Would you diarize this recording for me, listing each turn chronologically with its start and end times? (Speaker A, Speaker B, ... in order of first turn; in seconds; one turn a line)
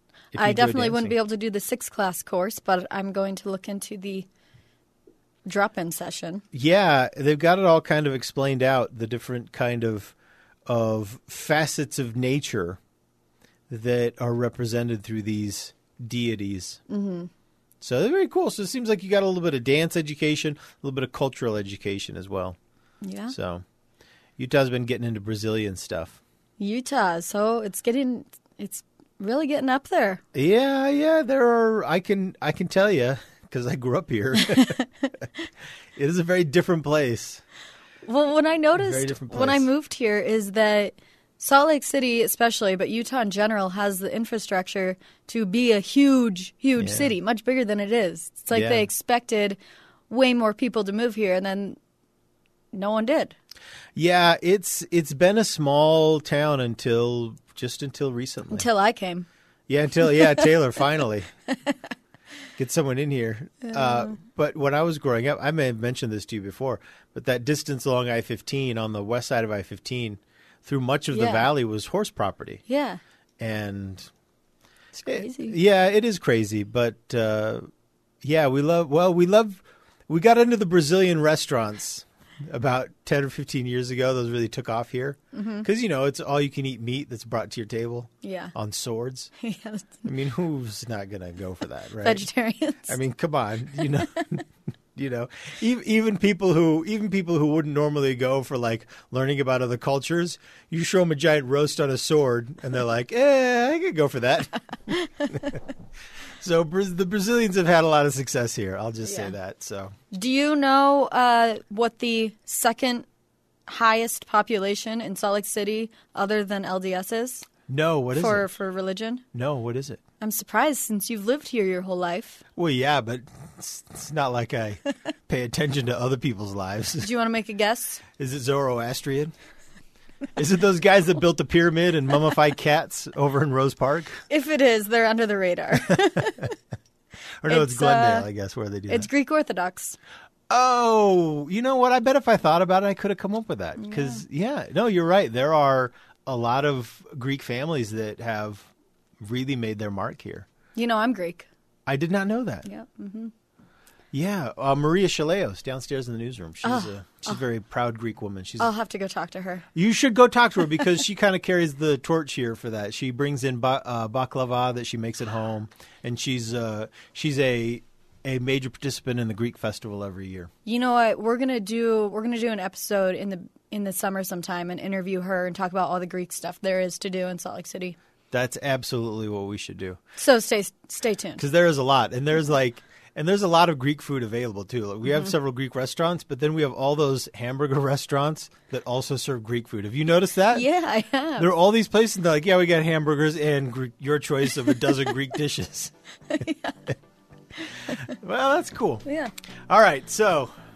Speaker A: 0.3-1.1
Speaker B: 0.4-4.3
Speaker B: 5.5-6.4
Speaker A: 6.5-10.1
Speaker A: 10.7-12.8
Speaker A: 13.7-16.8
Speaker B: 16.9-17.3
Speaker A: 17.8-22.6
Speaker B: 23.0-23.4
Speaker A: 23.3-23.6
Speaker A: 24.4-26.2
Speaker B: 26.6-30.2
Speaker A: 30.3-34.8
Speaker A: 36.0-37.4
Speaker B: 38.0-51.8
Speaker A: 38.7-39.7
Speaker A: 46.8-47.1
Speaker A: 48.5-48.9
Speaker B: 52.7-53.3
Speaker A: 53.9-58.7
Speaker B: 58.5-59.2
Speaker A: 59.7-61.3
Speaker A: 62.5-72.6
Speaker B: 63.6-64.1
Speaker B: 71.1-71.5
Speaker B: 72.7-73.0
Speaker A: 73.4-74.1
Speaker B: 74.9-75.5
Speaker A: 75.0-77.7
Speaker A: 78.2-89.3
Speaker B: 85.3-85.7
Speaker B: 88.2-88.5
Speaker B: 89.4-90.0
Speaker A: 90.0-92.3
Speaker B: 92.0-93.0
Speaker A: 92.8-94.4
Speaker A: 94.9-105.6
Speaker A: 106.4-109.9
Speaker B: 109.0-109.3
Speaker B: 110.1-113.0
Speaker B: 113.7-117.5
Speaker A: 117.7-118.5
Speaker B: 118.1-119.2
Speaker A: 119.3-120.0
Speaker B: 120.2-122.4
Speaker A: 122.5-127.1
Speaker B: 127.0-128.0
Speaker A: 128.2-129.3
Speaker A: 130.3-134.2
Speaker B: 134.3-136.5
Speaker A: 137.4-139.1
Speaker B: 137.5-138.3
Speaker B: 138.9-140.0
Speaker A: 140.5-148.7
Speaker B: 143.8-144.2
Speaker A: 149.2-150.5
Speaker B: 150.7-151.5
Speaker A: 151.9-152.7
Speaker B: 152.6-153.3
Speaker A: 154.1-158.7
Speaker B: 156.6-157.3
Speaker B: 158.6-159.6
Speaker A: 159.7-170.5
Speaker B: 170.6-177.9
Speaker A: 178.3-180.0
Speaker B: 180.2-181.4
Speaker A: 181.4-190.7
Speaker B: 190.5-191.5
Speaker A: 191.4-195.9
Speaker B: 196.3-196.8
Speaker A: 197.9-199.0
Speaker B: 199.0-199.3
Speaker A: 199.7-200.5